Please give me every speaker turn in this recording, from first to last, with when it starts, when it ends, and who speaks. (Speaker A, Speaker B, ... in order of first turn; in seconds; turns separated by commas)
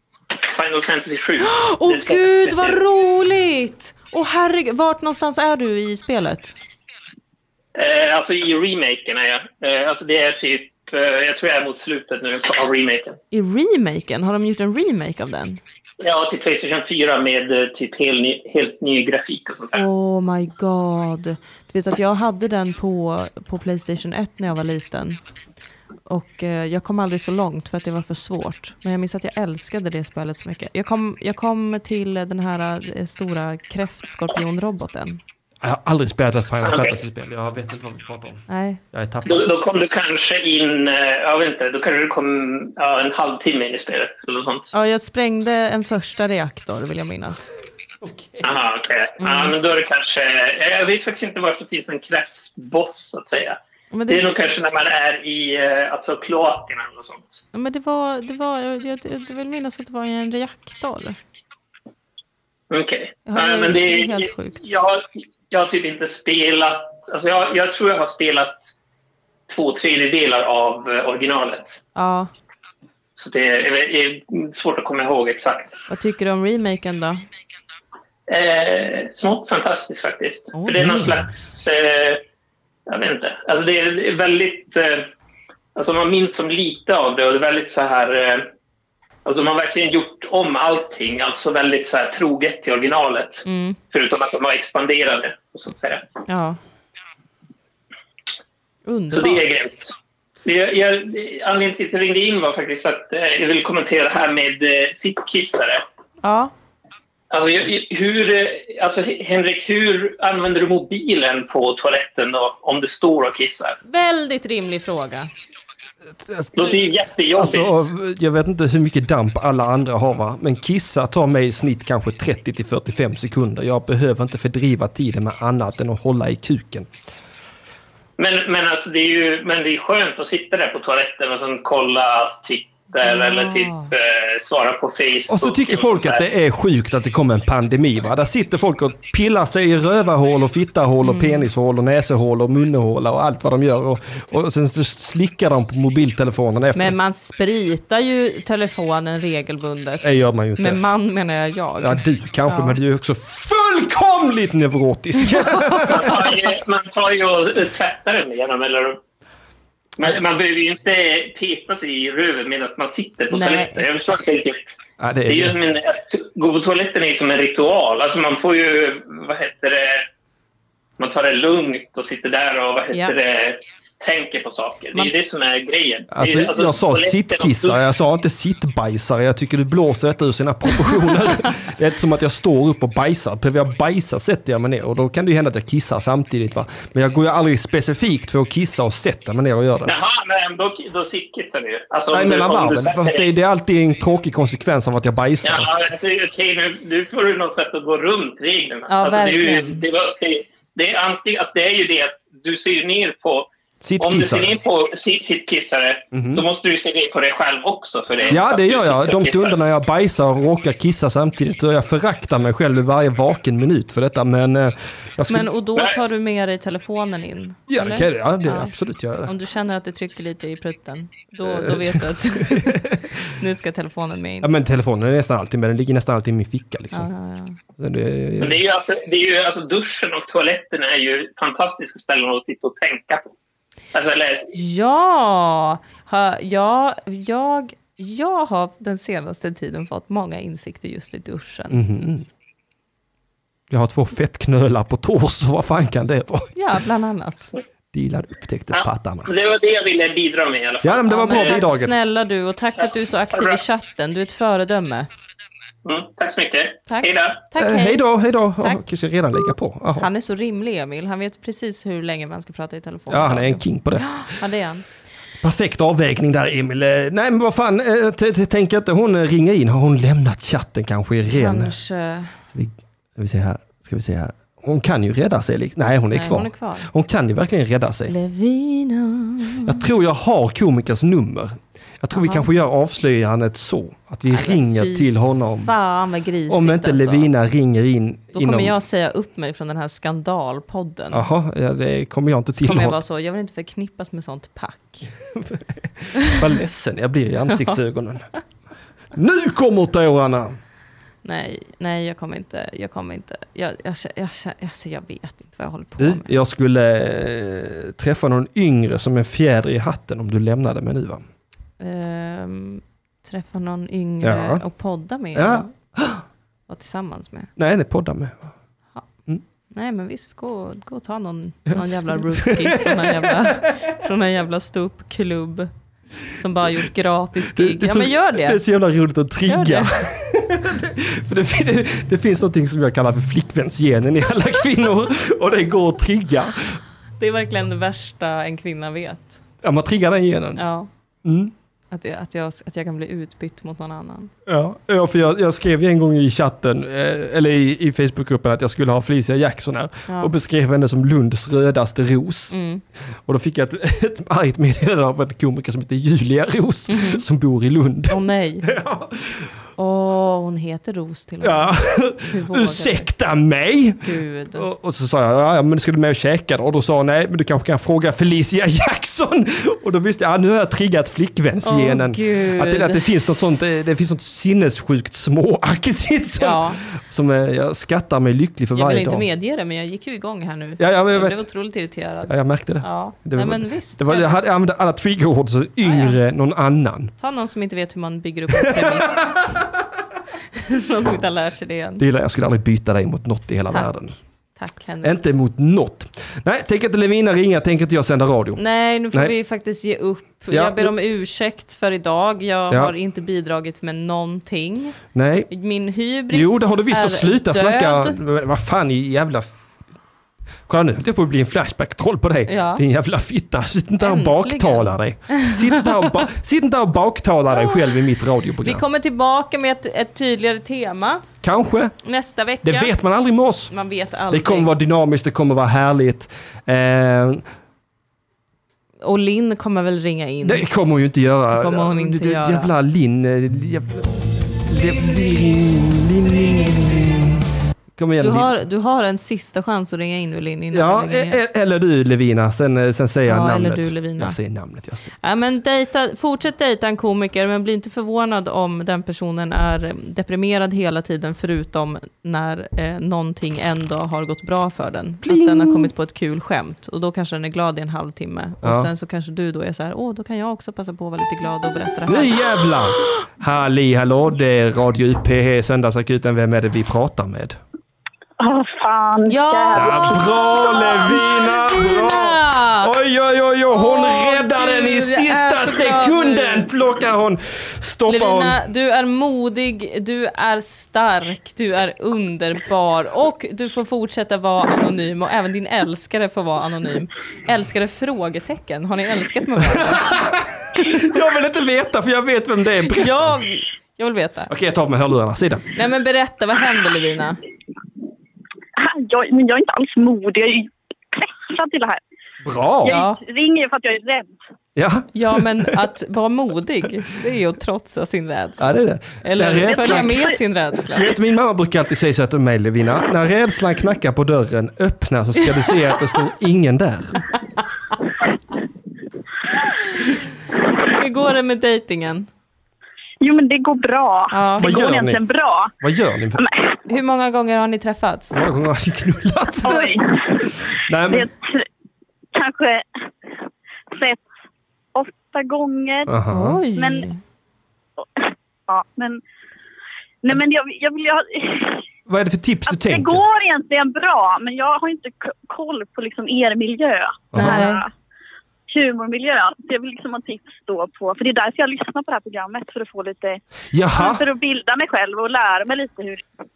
Speaker A: 0.3-2.8, Speaker B: 1.4-6.5, Speaker A: 7.7-13.2, Speaker B: 13.3-15.6, Speaker A: 16.0-19.8, Speaker B: 19.7-25.2, Speaker B: 26.1-35.2, Speaker C: 35.6-39.5, Speaker A: 36.6-36.9, Speaker B: 38.5-38.8, Speaker A: 39.2-44.7, Speaker B: 44.7-47.5, Speaker C: 48.0-48.6, Speaker A: 48.4-53.6, Speaker B: 49.2-49.5, Speaker B: 53.9-54.4, Speaker A: 54.1-57.4, Speaker B: 57.5-61.2, Speaker A: 62.7-68.7, Speaker B: 63.3-64.6, Speaker A: 69.5-71.8, Speaker B: 71.9-72.3, Speaker A: 73.1-75.8, Speaker B: 75.9-77.2, Speaker A: 78.3-82.2, Speaker B: 80.5-81.0, Speaker C: 80.8-81.1, Speaker A: 82.9-85.1, Speaker A: 85.7-88.5, Speaker A: 89.2-96.0, Speaker B: 93.4-93.8, Speaker B: 96.3-96.6, Speaker B: 98.8-99.4, Speaker A: 99.1-105.8, Speaker B: 106.2-106.5, Speaker A: 107.3-113.8, Speaker B: 113.8-115.3, Speaker C: 116.1-116.8, Speaker A: 116.5-117.9, Speaker C: 117.3-126.9, Speaker A: 128.2-136.2, Speaker B: 133.0-133.9, Speaker C: 135.3-146.9, Speaker B: 141.0-141.4, Speaker B: 146.7-152.8, Speaker C: 150.0-150.8, Speaker C: 151.8-156.2, Speaker B: 155.2-156.2, Speaker A: 155.8-159.0, Speaker A: 160.0-170.1, Speaker B: 163.3-164.1, Speaker C: 165.0-165.6, Speaker A: 171.0-177.9, Speaker C: 176.1-189.9, Speaker A: 189.8-193.2, Speaker C: 192.1-195.7, Speaker A: 195.4-203.5, Speaker B: 198.9-199.8, Speaker C: 203.8-204.5, Speaker A: 204.0-209.6, Speaker C: 206.1-206.4, Speaker C: 208.3-215.6, Speaker B: 215.3-218.7, Speaker C: 217.7-219.3, Speaker B: 219.2-224.5, Speaker C: 221.4-223.2, Speaker C: 224.4-227.1, Speaker B: 226.9-227.6, Speaker C: 227.8-228.6, Speaker A: 228.4-233.3, Speaker A: 233.9-234.5, Speaker B: 234.5-241.8, Speaker C: 241.7-242.3, Speaker C: 243.7-246.5, Speaker B: 246.6-247.5, Speaker C: 247.9-249.3, Speaker A: 248.7-251.6, Speaker C: 250.8-251.9, Speaker B: 251.1-255.1, Speaker A: 253.3-253.6, Speaker A: 255.8-257.4, Speaker B: 256.9-258.0, Speaker C: 257.6-260.1, Speaker B: 260.0-264.8, Speaker C: 263.1-264.3, Speaker C: 265.4-271.7, Speaker B: 271.2-272.4, Speaker C: 272.5-278.1, Speaker B: 276.1-276.9, Speaker B: 278.1-279.7, Speaker C: 279.6-285.7, Speaker B: 282.1-282.4, Speaker B: 284.3-287.3, Speaker C: 286.5-288.7, Speaker B: 288.3-291.2, Speaker C: 291.1-293.0, Speaker B: 292.6-295.1, Speaker C: 295.3-298.3, Speaker B: 296.1-296.4, Speaker C: 299.1-300.6, Speaker B: 301.2-306.3, Speaker C: 306.0-311.2, Speaker B: 311.8-315.7, Speaker C: 314.2-314.6, Speaker C: 315.3-316.2, Speaker B: 316.7-317.5, Speaker C: 317.6-318.5, Speaker B: 319.7-325.7, Speaker C: 321.7-323.7, Speaker B: 326.3-328.6, Speaker C: 327.5-336.8, Speaker B: 329.4-329.9, Speaker B: 337.2-339.4, Speaker C: 339.6-340.6, Speaker B: 340.6-340.9, Speaker C: 341.2-341.5, Speaker B: 341.9-344.3, Speaker C: 344.4-352.5, Speaker B: 350.1-350.3, Speaker B: 352.5-352.8, Speaker C: 353.2-359.5, Speaker B: 356.9-357.2, Speaker B: 358.1-358.7, Speaker B: 359.8-363.1, Speaker C: 361.4-379.2, Speaker B: 364.0-364.7, Speaker B: 371.6-373.0, Speaker B: 376.4-376.8, Speaker B: 378.7-384.4, Speaker C: 380.8-381.4, Speaker C: 382.3-387.1, Speaker B: 385.8-386.2, Speaker B: 387.2-389.4, Speaker C: 388.5-389.7, Speaker B: 390.5-392.0, Speaker C: 392.0-394.1, Speaker B: 394.5-395.2, Speaker C: 395.0-398.6, Speaker B: 398.6-405.0, Speaker C: 400.5-400.9, Speaker C: 405.1-405.5, Speaker B: 405.5-408.2, Speaker C: 406.3-409.6, Speaker C: 410.7-418.8, Speaker B: 412.5-412.8, Speaker B: 414.0-416.2, Speaker B: 417.5-418.0, Speaker B: 418.6-421.2, Speaker C: 421.4-421.9, Speaker B: 422.0-422.9, Speaker C: 422.6-423.7, Speaker B: 423.7-424.7, Speaker C: 424.3-427.4, Speaker B: 429.0-430.6, Speaker C: 430.4-438.5, Speaker B: 431.5-432.7, Speaker B: 438.2-441.4, Speaker C: 440.7-445.2, Speaker B: 443.3-444.4, Speaker B: 445.2-462.8, Speaker C: 455.2-455.9, Speaker C: 458.6-458.9, Speaker C: 462.1-467.6, Speaker D: 468.4-470.2, Speaker B: 469.3-472.9, Speaker C: 469.7-478.6, Speaker B: 473.7-476.7, Speaker B: 478.1-490.4, Speaker C: 489.6-493.4, Speaker B: 492.9-494.5, Speaker C: 494.5-495.7, Speaker B: 495.7-497.4, Speaker D: 498.8-502.0, Speaker C: 502.4-503.0, Speaker D: 502.8-504.4, Speaker B: 502.9-503.2, Speaker C: 504.8-505.7, Speaker B: 505.1-508.7, Speaker C: 508.6-510.3, Speaker B: 509.2-511.1, Speaker D: 509.7-510.4, Speaker C: 510.9-517.2, Speaker B: 519.9-520.2, Speaker B: 520.8-522.3, Speaker D: 523.2-525.7, Speaker B: 524.3-524.7, Speaker C: 524.6-526.4, Speaker D: 526.4-526.7, Speaker B: 526.9-528.4, Speaker C: 528.3-531.3, Speaker D: 529.6-530.5, Speaker D: 531.1-531.7, Speaker D: 532.3-533.0, Speaker D: 533.9-534.2, Speaker D: 534.9-536.1, Speaker C: 536.1-536.6, Speaker B: 536.3-537.2, Speaker D: 536.7-537.1, Speaker D: 538.1-539.2, Speaker D: 540.2-541.8, Speaker C: 542.1-543.2, Speaker D: 542.7-547.9, Speaker C: 547.3-547.7, Speaker B: 547.3-547.8, Speaker D: 548.7-553.4, Speaker C: 553.7-554.2, Speaker D: 553.9-556.2